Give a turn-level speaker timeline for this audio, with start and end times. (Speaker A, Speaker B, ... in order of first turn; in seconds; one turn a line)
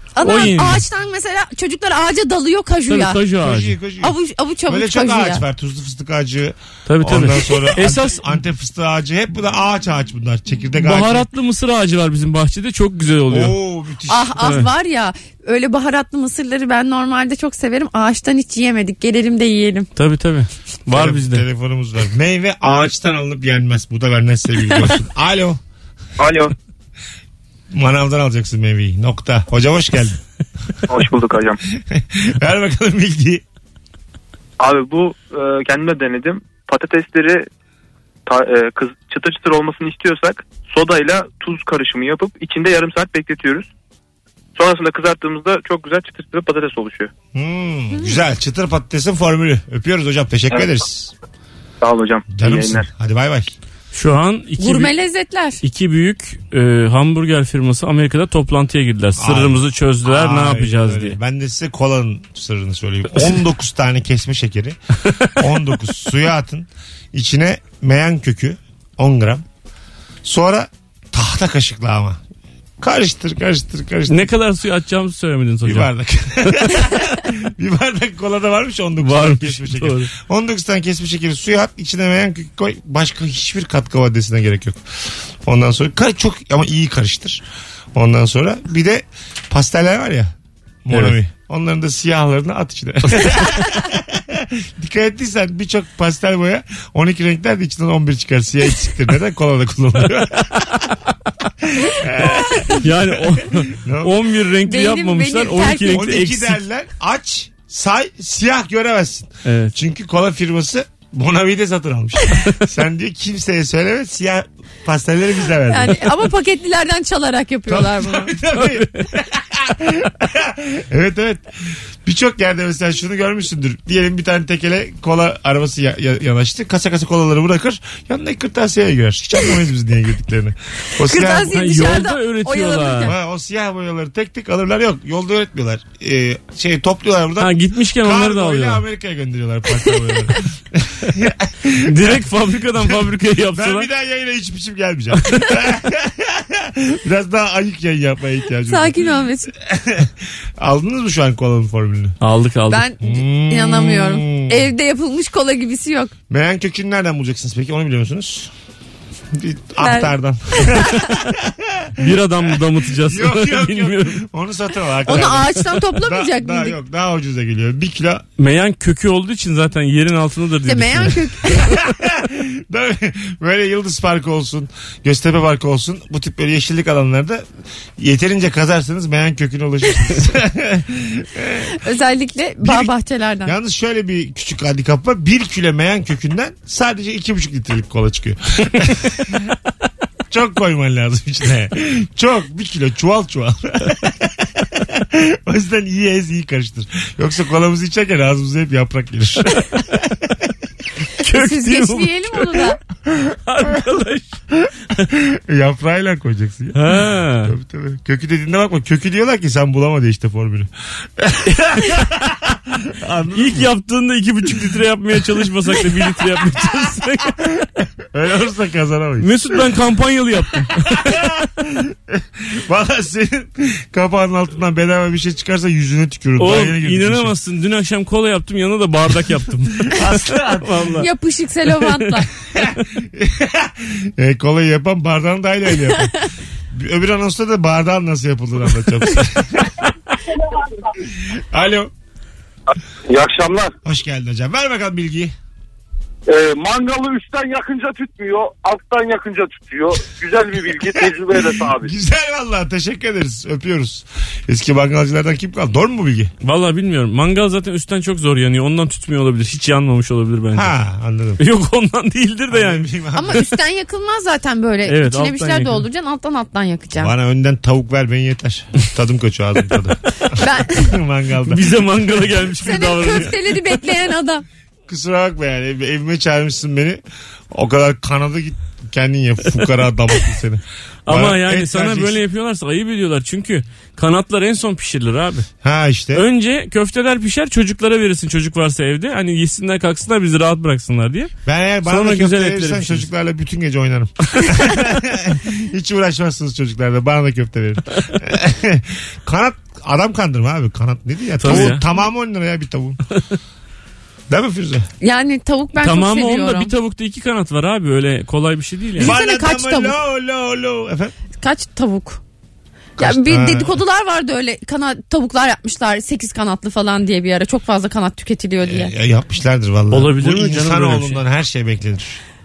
Speaker A: 0.1-3.2
Speaker B: 0.2-0.8
Speaker B: 2.9-3.8
Speaker C: 3.4-4.1
Speaker A: 4.0-5.4
Speaker C: 4.7-11.3
Speaker B: 6.9-8.4
Speaker B: 10.7-13.6
Speaker C: 13.3-14.4
Speaker A: 14.1-19.9
Speaker B: 14.4-14.7
Speaker B: 19.9-21.4
Speaker C: 20.9-25.6
Speaker D: 26.2-26.5
Speaker C: 27.7-30.2
Speaker D: 30.9-31.6
Speaker C: 31.8-33.4
Speaker D: 34.6-37.5
Speaker D: 38.3-43.7
Speaker D: 44.6-47.1
Speaker C: 47.3-51.1
Speaker D: 51.8-52.9
Speaker C: 52.3-53.5
Speaker B: 53.9-54.9
Speaker A: 54.6-55.6
Speaker B: 55.6-61.1
Speaker C: 59.1-64.8
Speaker C: 65.4-69.4
Speaker C: 70.2-72.2
Speaker C: 72.8-74.3
Speaker B: 74.1-75.9
Speaker C: 75.6-84.8
Speaker B: 76.5-76.7
Speaker B: 79.0-80.1
Speaker C: 85.4-90.3
Speaker C: 90.8-101.0
Speaker B: 90.9-91.2
Speaker C: 101.6-104.2
Speaker A: 102.3-102.8
Speaker B: 102.7-106.6
Speaker A: 104.7-106.1
Speaker C: 105.9-116.2
Speaker B: 109.4-109.7
Speaker A: 115.7-118.3
Speaker C: 117.7-121.5
Speaker B: 118.6-119.0
Speaker C: 122.0-131.6
Speaker A: 131.0-133.1
Speaker B: 131.5-133.1
Speaker C: 133.1-142.2
Speaker B: 137.4-138.8
Speaker B: 141.8-143.9
Speaker C: 143.6-152.2
Speaker A: 148.7-149.5
Speaker B: 152.2-152.8
Speaker A: 152.7-156.1
Speaker C: 153.0-154.7
Speaker C: 156.3-158.5
Speaker C: 159.3-162.1
Speaker A: 159.8-161.0
Speaker B: 162.0-164.2
Speaker C: 163.0-168.2
Speaker A: 165.1-166.8
Speaker B: 168.4-171.3
Speaker A: 170.7-171.7
Speaker C: 171.6-177.4
Speaker C: 178.0-181.7
Speaker A: 181.7-183.5
Speaker C: 182.6-182.9
Speaker C: 183.4-189.4
Speaker C: 190.3-199.6
Speaker B: 201.2-202.7
Speaker A: 201.2-202.8
Speaker B: 203.4-204.4
Speaker C: 204.5-213.7
Speaker B: 206.7-207.5
Speaker B: 211.5-212.1
Speaker B: 213.3-217.4
Speaker C: 214.4-214.7
Speaker C: 217.3-219.3
Speaker B: 219.2-221.2
Speaker C: 220.9-227.3
Speaker B: 226.4-231.1
Speaker C: 229.9-231.0
Speaker A: 231.0-232.3
Speaker B: 231.7-232.8
Speaker C: 232.6-236.1
Speaker C: 236.7-239.9
Speaker C: 241.2-241.9
Speaker E: 243.1-243.7
Speaker C: 243.8-245.3
Speaker E: 246.3-251.9
Speaker C: 250.9-256.3
Speaker B: 256.4-260.7
Speaker C: 260.6-261.4
Speaker B: 261.4-262.9
Speaker C: 262.5-263.5
Speaker A: 263.1-267.1
Speaker B: 264.9-265.9
Speaker C: 267.0-271.8
Speaker A: 270.3-271.0
Speaker B: 271.4-273.6
Speaker A: 272.6-274.4
Speaker C: 274.9-282.2
Speaker B: 281.1-285.5
Speaker C: 285.6-286.2
Speaker B: 286.1-291.3
Speaker C: 291.4-303.0
Speaker B: 291.9-293.1
Speaker B: 301.4-301.8
Speaker C: 304.3-304.9
Speaker A: 305.0-306.7
Speaker B: 305.8-309.1
Speaker C: 309.0-311.1
Speaker A: 309.0-309.9
Speaker A: 311.4-312.2
Speaker C: 313.0-313.8
Speaker A: 313.0-318.9
Speaker C: 318.6-322.2
Speaker B: 319.9-321.2